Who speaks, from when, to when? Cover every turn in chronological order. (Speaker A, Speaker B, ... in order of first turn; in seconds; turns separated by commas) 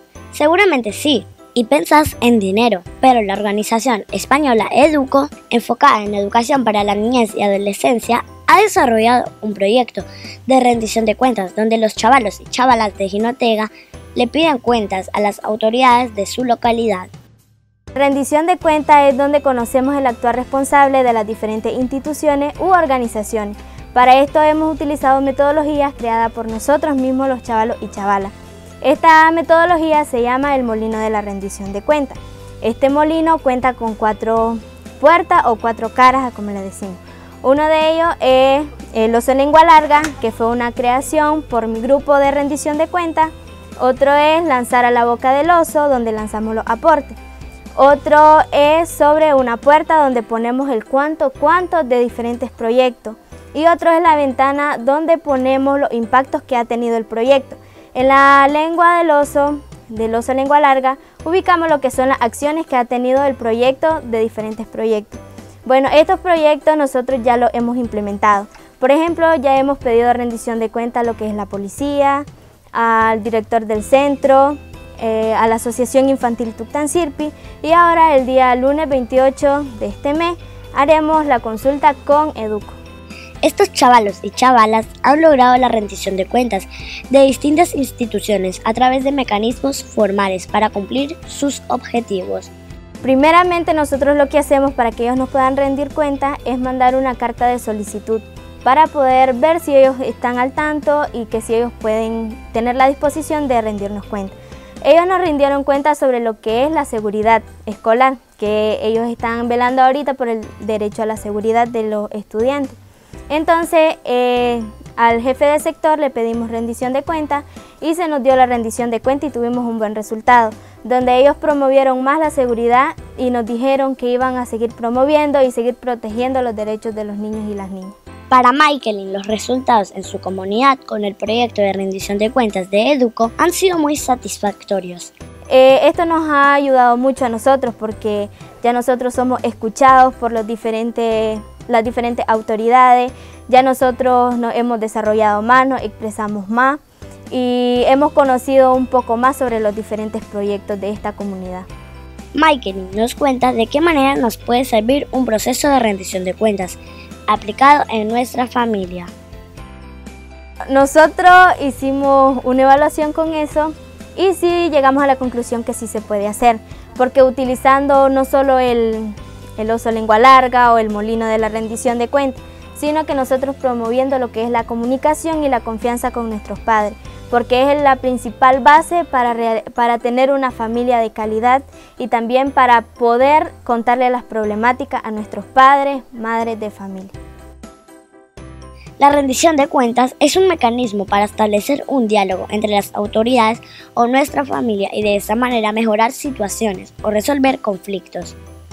Speaker A: 0.3-17.1, Speaker B: 17.9-47.2, Speaker B: 47.7-82.8, Speaker A: 83.4-92.5, Speaker B: 93.0-112.8, Speaker B: 113.3-127.9, Speaker A: 128.3-135.1, Speaker B: 135.5-151.7, Speaker A: 152.3-159.1, Speaker B: 160.7-187.1, Speaker A: 189.0-198.3